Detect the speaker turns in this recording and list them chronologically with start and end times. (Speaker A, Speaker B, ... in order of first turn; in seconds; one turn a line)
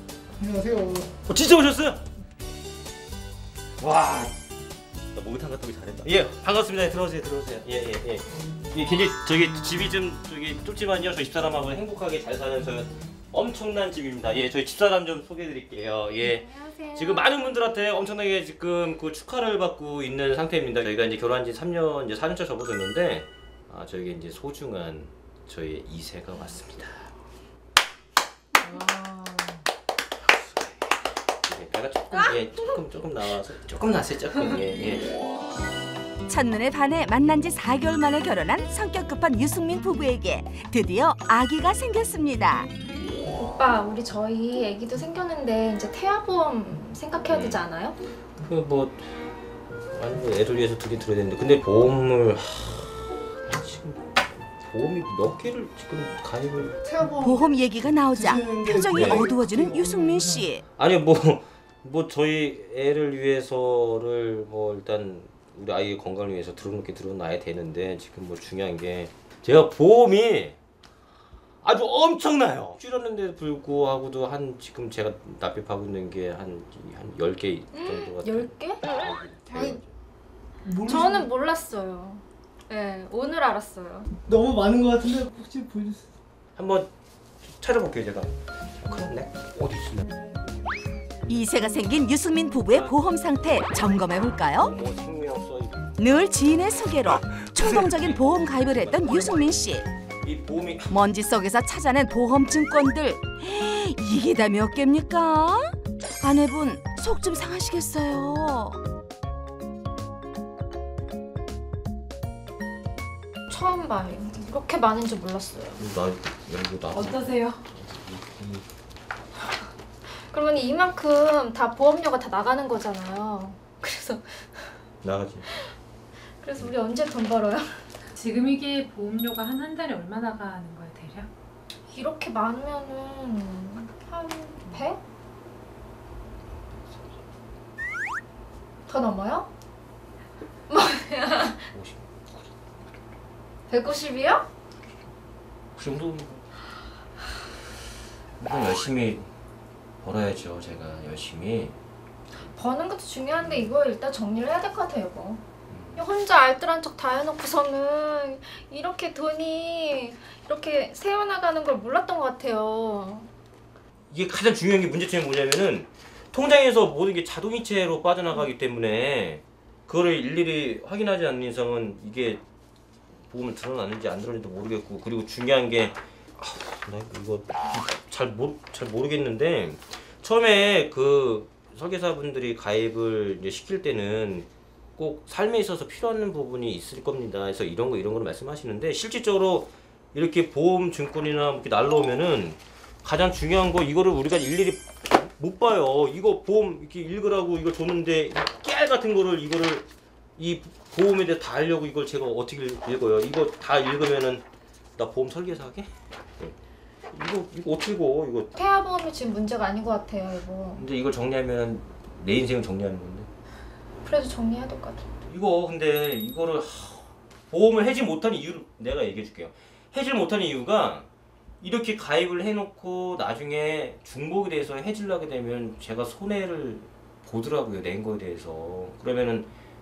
Speaker A: 0.4-0.8
Speaker B: 1.2-2.0
Speaker B: 3.8-4.3
Speaker B: 5.3-27.1
Speaker C: 16.1-17.3
Speaker B: 31.4-35.2
Speaker D: 36.3-42.7
Speaker C: 43.4-48.0
Speaker B: 47.2-47.7
Speaker B: 48.4-49.1
Speaker B: 49.9-56.8
Speaker A: 56.8-57.5
Speaker D: 57.2-60.6
Speaker A: 58.1-60.4
Speaker B: 58.9-59.3
Speaker B: 60.8-70.6
Speaker B: 71.6-79.9
Speaker C: 77.7-79.8
Speaker A: 80.7-81.3
Speaker C: 80.9-84.1
Speaker A: 84.3-86.0
Speaker B: 86.5-86.9
Speaker B: 87.6-90.0
Speaker D: 91.3-94.7
Speaker B: 92.6-93.4
Speaker B: 94.6-96.8
Speaker D: 96.0-99.8
Speaker B: 97.5-99.5
Speaker B: 100.2-101.3
Speaker D: 100.9-108.8
Speaker C: 113.5-115.8
Speaker B: 115.8-118.6
Speaker E: 116.9-117.6
Speaker C: 119.4-124.8
Speaker B: 125.0-125.5
Speaker C: 125.4-125.7
Speaker C: 126.4-127.8
Speaker E: 128.1-131.3
Speaker C: 131.9-135.0
Speaker C: 138.9-139.5
Speaker C: 140.7-141.7
Speaker B: 141.7-142.1
Speaker C: 143.7-144.4
Speaker B: 145.7-146.4
Speaker B: 148.4-149.3
Speaker B: 150.0-151.8
Speaker C: 152.4-155.4
Speaker B: 153.4-153.8
Speaker B: 155.7-156.1
Speaker C: 155.9-163.3
Speaker B: 164.1-172.4
Speaker B: 173.3-199.8
Speaker B: 200.4-204.4
Speaker B: 205.0-206.5
Speaker B: 207.1-208.5
Speaker C: 208.5-210.8
Speaker B: 210.8-213.3
Speaker C: 214.0-215.0
Speaker B: 215.2-221.1
Speaker B: 221.6-229.5